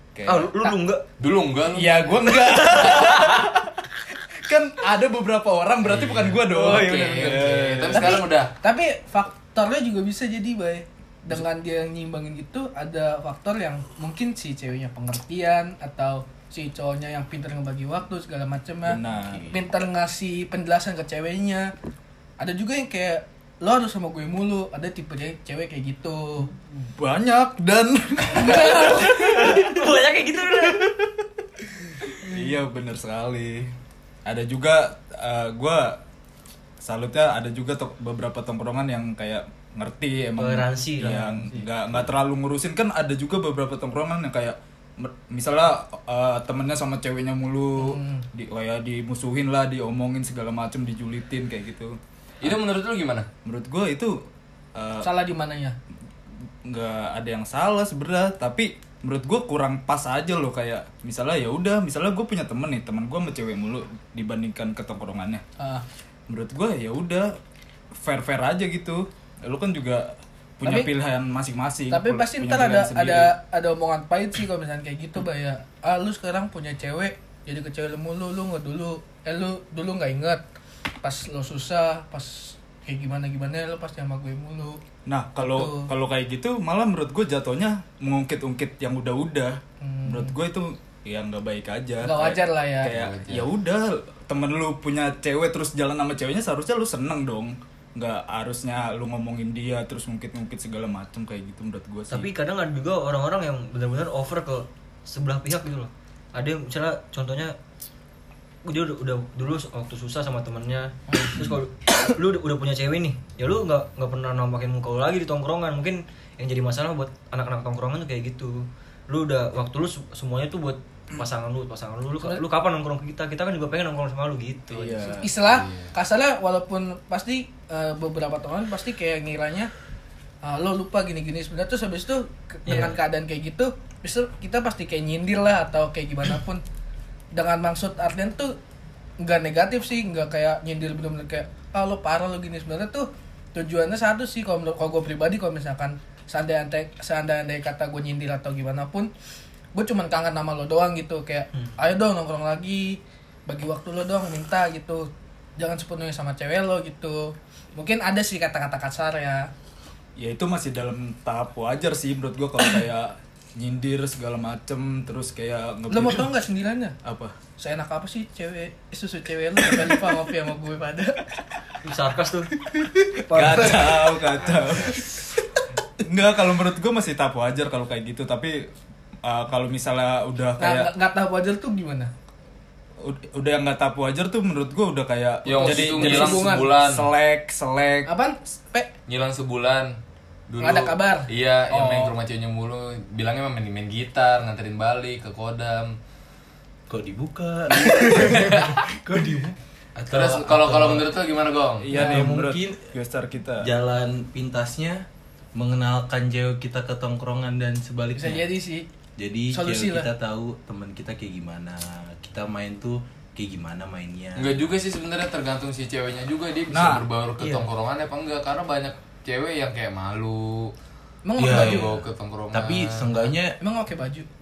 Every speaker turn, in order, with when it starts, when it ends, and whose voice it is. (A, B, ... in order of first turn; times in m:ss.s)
0:00.2-0:00.5 A
0:00.2-0:01.0 B
0:01.2-0:02.0 C
0:01.7-0:08.2 A
0:02.8-0:03.2 C
0:02.8-0:03.3 B
0:05.8-0:08.5 C
0:07.9-0:21.7 D
0:18.8-0:19.5 A
0:19.1-0:19.6 E
0:22.4-0:26.5 D
0:26.6-0:29.7 A
0:28.3-0:29.7 D
0:28.5-0:30.9 B
0:30.7-0:31.1 A
0:32.0-0:33.7 A
0:34.2-0:36.0 A
0:36.8-0:52.5 A
0:40.4-0:41.5 B
0:47.8-0:48.2 D
0:52.4-0:53.3 C
0:53.4-0:54.1 A
0:54.8-0:55.1 A
0:55.0-0:55.8 D
0:56.6-1:05.4 A
1:05.6-1:05.8 D
1:06.3-1:07.3 A
1:08.0-1:13.3 A
1:10.6-1:10.9 D
1:11.9-1:20.4 D
1:21.0-1:24.8 D
1:25.1-1:42.3 A
1:25.4-1:25.9 D
1:29.8-1:30.4 D
1:32.0-1:32.9 D
1:32.9-1:33.5 C
1:42.1-1:47.6 B
1:48.6-2:05.2 B
1:51.2-1:51.6 A
2:04.7-2:05.3 A
2:05.1-2:09.7 D
2:05.4-2:05.9 C
2:10.4-2:16.6 D
2:12.7-2:13.0 B
2:17.3-2:18.6 D
2:19.2-2:29.1 D
2:29.7-2:39.5 D
2:40.2-2:46.3 A
2:45.9-2:47.0 D
2:47.0-2:47.4 A
2:47.6-2:51.4 D
2:49.6-2:50.2 A
2:51.8-2:52.5 B
2:52.7-2:55.4 A
2:53.3-2:54.1 B
2:54.3-2:55.1 E
2:56.0-2:58.6 A
2:59.2-3:00.9 A
3:00.6-3:02.1 D
3:03.0-3:08.1 A
3:05.4-3:07.1 C
3:05.6-3:06.7 D
3:08.0-3:08.9 D
3:09.1-3:10.0 C
3:10.5-3:16.0 C
3:10.6-3:11.3 D
3:11.7-3:12.1 A
3:16.9-3:21.1 E
3:17.8-3:18.9 C
3:20.1-3:22.0 C
3:21.8-3:23.7 A
3:21.9-3:22.9 E
3:23.6-3:28.5 E
3:28.2-3:28.9 D
3:29.2-3:34.7 E
3:29.5-3:30.1 D
3:34.4-3:40.7 C
3:36.7-3:37.1 A
3:37.4-3:37.7 B
3:41.2-3:41.9 D
3:41.4-3:43.6 E
3:41.4-3:43.3 C
3:43.6-3:44.3 D